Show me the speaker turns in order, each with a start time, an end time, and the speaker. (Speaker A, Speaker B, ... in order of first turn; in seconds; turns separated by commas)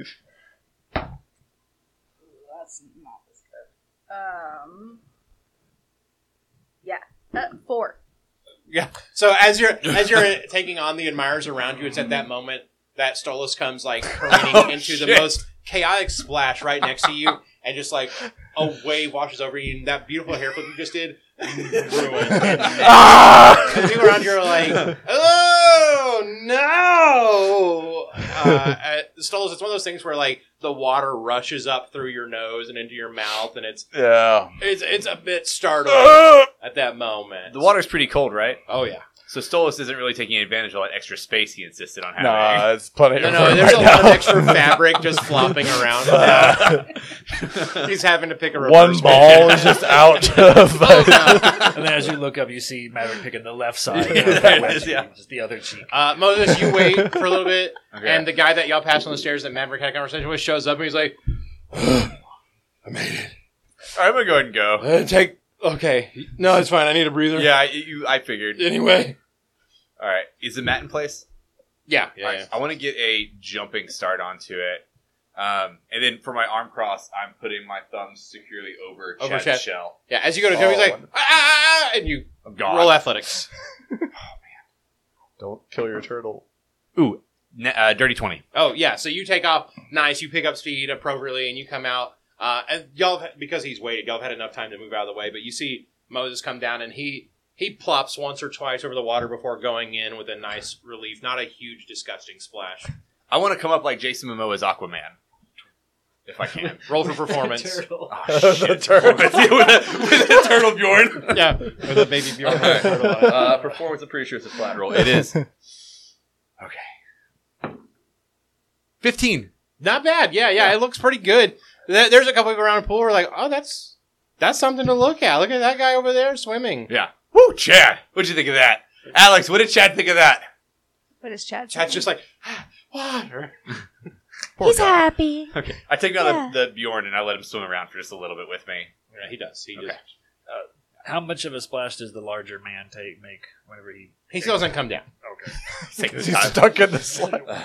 Speaker A: 2.3-5.0, Speaker A: 6.8-8.0, Speaker B: 8.7-33.9, Speaker C: 14.3-15.4, Speaker D: 22.6-23.9, Speaker D: 33.9-34.6, Speaker B: 34.6-37.7, Speaker D: 36.0-36.5, Speaker C: 37.5-38.6, Speaker B: 38.7-39.1, Speaker C: 39.3-42.7, Speaker D: 42.2-46.9, Speaker B: 43.2-46.9, Speaker C: 46.4-46.8, Speaker C: 47.4-47.9, Speaker B: 47.7-51.7, Speaker D: 48.6-51.7, Speaker C: 51.2-51.8, Speaker E: 51.4-56.1, Speaker C: 53.9-55.1, Speaker B: 55.9-61.2, Speaker D: 56.6-57.2, Speaker C: 57.9-58.3, Speaker B: 61.7-62.2, Speaker B: 62.9-63.3, Speaker C: 63.9-64.9, Speaker B: 64.8-67.5, Speaker C: 67.3-68.6, Speaker B: 68.6-69.2, Speaker C: 70.0-71.2, Speaker B: 71.9-72.5, Speaker C: 72.2-74.8, Speaker C: 75.4-80.0, Speaker B: 79.2-83.5, Speaker D: 80.5-81.1, Speaker C: 82.5-83.0, Speaker D: 85.4-86.4, Speaker C: 87.0-88.4, Speaker B: 88.5-102.9, Speaker C: 103.3-105.2, Speaker C: 106.3-106.9, Speaker B: 106.9-107.8, Speaker E: 107.1-108.2, Speaker C: 108.1-111.7, Speaker D: 108.3-109.4, Speaker B: 111.3-113.6, Speaker C: 112.4-115.4, Speaker E: 112.6-113.7, Speaker D: 115.0-115.4, Speaker C: 116.6-116.9, Speaker C: 119.0-119.5, Speaker B: 119.8-126.9, Speaker C: 126.9-130.5, Speaker A: 131.2-132.1, Speaker B: 131.7-133.5, Speaker C: 134.6-138.9, Speaker A: 134.6-135.5, Speaker A: 136.2-136.5, Speaker B: 139.1-140.0, Speaker E: 140.5-144.7, Speaker B: 144.3-145.1, Speaker E: 145.2-145.6, Speaker C: 145.9-146.7, Speaker D: 146.0-147.5